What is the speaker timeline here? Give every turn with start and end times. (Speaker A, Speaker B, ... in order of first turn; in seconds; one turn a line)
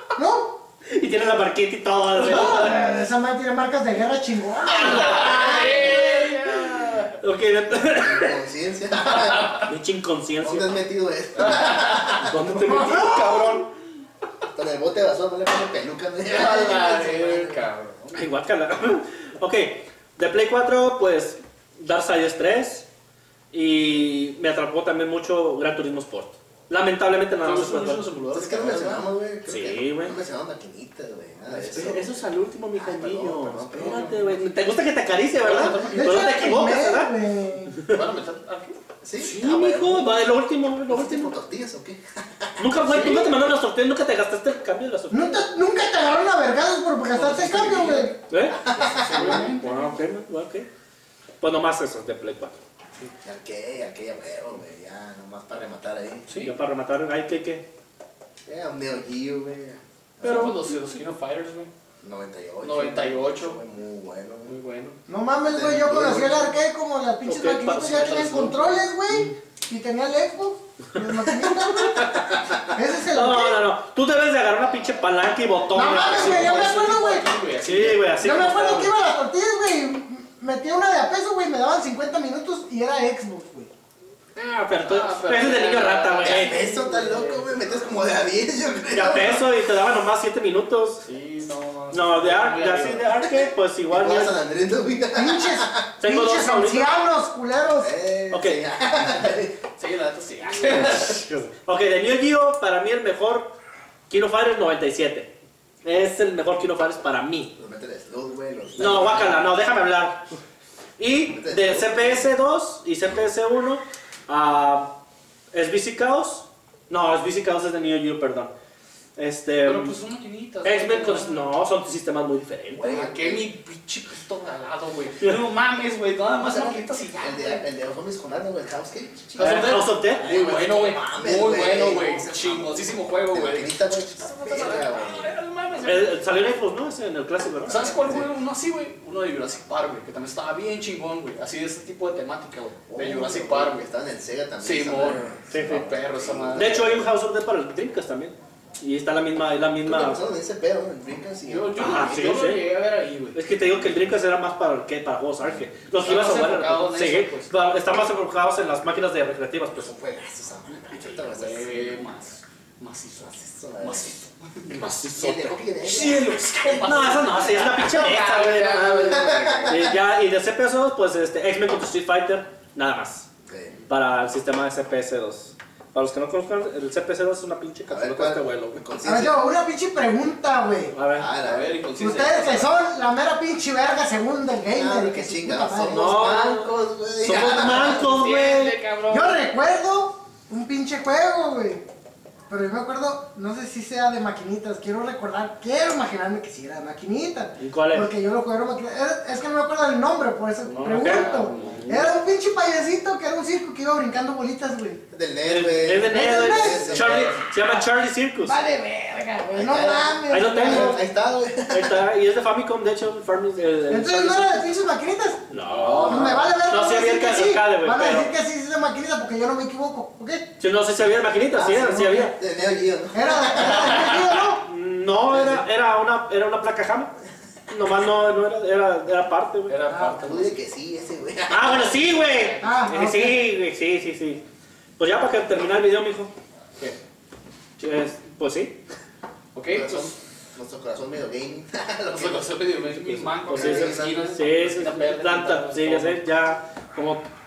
Speaker A: 0.1-0.6
Speaker B: 0.9-2.9
Speaker A: 2.2-5.6
Speaker B: 4.7-8.4
Speaker C: 4.8-7.2
Speaker D: 7.8-9.7
Speaker B: 9.2-10.8
Speaker D: 10.4-12.3
Speaker B: 11.4-13.7
Speaker C: 11.5-12.0
Speaker A: 12.6-13.6
Speaker D: 14.5-17.6
Speaker C: 16.2-18.3
Speaker B: 18.1-22.9
Speaker B: 23.5-28.1
Speaker C: 27.4-29.1
Speaker D: 28.3-32.1
Speaker B: 29.5-30.1
Speaker C: 31.5-32.0
Speaker B: 31.6-38.0
Speaker D: 32.8-34.1
Speaker C: 33.7-34.4
Speaker C: 35.4-36.3
Speaker A: 35.9-37.9
Speaker C: 37.9-38.8
Speaker D: 39.0-40.2
Speaker B: 39.2-41.3
Speaker D: 40.9-42.8
Speaker B: 42.6-45.5
Speaker C: 42.8-43.3
Speaker A: 45.1-48.2
Speaker C: 47.1-48.1
Speaker B: 48.3-50.7
Speaker D: 48.5-49.4
Speaker C: 48.7-50.0
Speaker B: 51.4-52.5
Speaker D: 53.2-56.3
Speaker C: 56.3-56.5
Speaker B: 56.4-57.6
Speaker D: 58.5-60.6
Speaker C: 60.2-61.7
Speaker B: 60.2-60.8
Speaker D: 62.0-64.5
Speaker C: 62.6-63.6
Speaker C: 64.5-65.0
Speaker A: 65.1-73.6
Speaker D: 65.4-66.5
Speaker B: 67.2-69.3
Speaker D: 72.0-72.7
Speaker B: 73.1-76.7
Speaker A: 75.7-77.4
Speaker C: 75.9-78.3
Speaker B: 77.6-78.9
Speaker A: 78.2-83.7
Speaker B: 84.4-86.6
Speaker C: 84.8-87.5
Speaker D: 86.2-89.5
Speaker B: 88.9-91.1
Speaker C: 91.0-93.1
Speaker B: 91.9-94.4
Speaker D: 93.2-95.8
Speaker A: 95.2-97.9
Speaker B: 96.0-96.9
Speaker D: 97.8-99.6
Speaker B: 98.3-98.6
Speaker C: 99.8-101.2
Speaker B: 100.6-103.5
Speaker B: 104.1-105.3
Speaker B: 105.8-107.5
Speaker D: 107.6-109.5
Speaker B: 108.8-110.3
Speaker B: 111.0-114.9
Speaker D: 111.3-112.3
Speaker B: 115.5-118.5
Speaker B: 119.2-120.0
Speaker C: 119.6-121.4
Speaker B: 120.7-123.0
Speaker D: 122.7-123.5
Speaker C: 122.9-127.6
Speaker D: 126.4-135.4
Speaker C: 129.3-136.2
Speaker B: 129.4-130.3
Speaker B: 135.8-138.2
Speaker C: 137.7-143.9
Speaker D: 137.7-138.3
Speaker D: 142.9-147.0
Speaker C: 144.6-147.0
Speaker B: 145.5-145.8
Speaker B: 146.5-150.4
Speaker D: 149.8-152.5
Speaker C: 151.5-153.6
Speaker B: 151.8-152.7
Speaker B: 153.3-159.9
Speaker C: 156.0-157.5
Speaker D: 159.8-162.3
Speaker C: 160.7-170.0
Speaker D: 163.2-164.2
Speaker D: 165.0-166.7
Speaker B: 166.8-173.3
Speaker D: 169.1-169.9
Speaker D: 173.5-173.8
Speaker B: 173.9-178.8
Speaker D: 177.9-179.4
Speaker A: 179.0-181.0
Speaker B: 180.9-181.3
Speaker D: 181.1-181.8
Speaker C: 181.3-182.7
Speaker A: 181.9-186.0
Speaker D: 184.7-188.2
Speaker B: 185.9-188.8
Speaker C: 187.9-189.4
Speaker A: 189.1-191.8
Speaker A: 192.5-205.0
Speaker B: 197.6-198.1
Speaker C: 200.6-202.1
Speaker B: 200.8-202.1
Speaker D: 205.1-207.4
Speaker B: 205.4-208.6
Speaker A: 206.0-207.0
Speaker C: 206.9-207.5
Speaker A: 208.4-211.0
Speaker D: 209.5-212.1
Speaker B: 210.3-211.0
Speaker B: 211.7-214.8
Speaker A: 213.9-220.5
Speaker B: 215.5-218.3
Speaker C: 215.6-216.5
Speaker B: 220.6-222.3
Speaker D: 221.5-224.2
Speaker A: 223.1-224.7
Speaker B: 224.6-227.1
Speaker D: 225.3-225.7
Speaker B: 227.7-229.9
Speaker C: 229.7-230.6
Speaker A: 229.9-230.2
Speaker D: 230.2-232.2
Speaker B: 231.5-234.4
Speaker A: 232.6-233.4
Speaker B: 235.0-236.3
Speaker B: 237.8-238.8
Speaker C: 239.5-240.2
Speaker D: 239.7-242.6
Speaker C: 242.1-246.2
Speaker B: 243.0-247.3
Speaker D: 243.5-244.4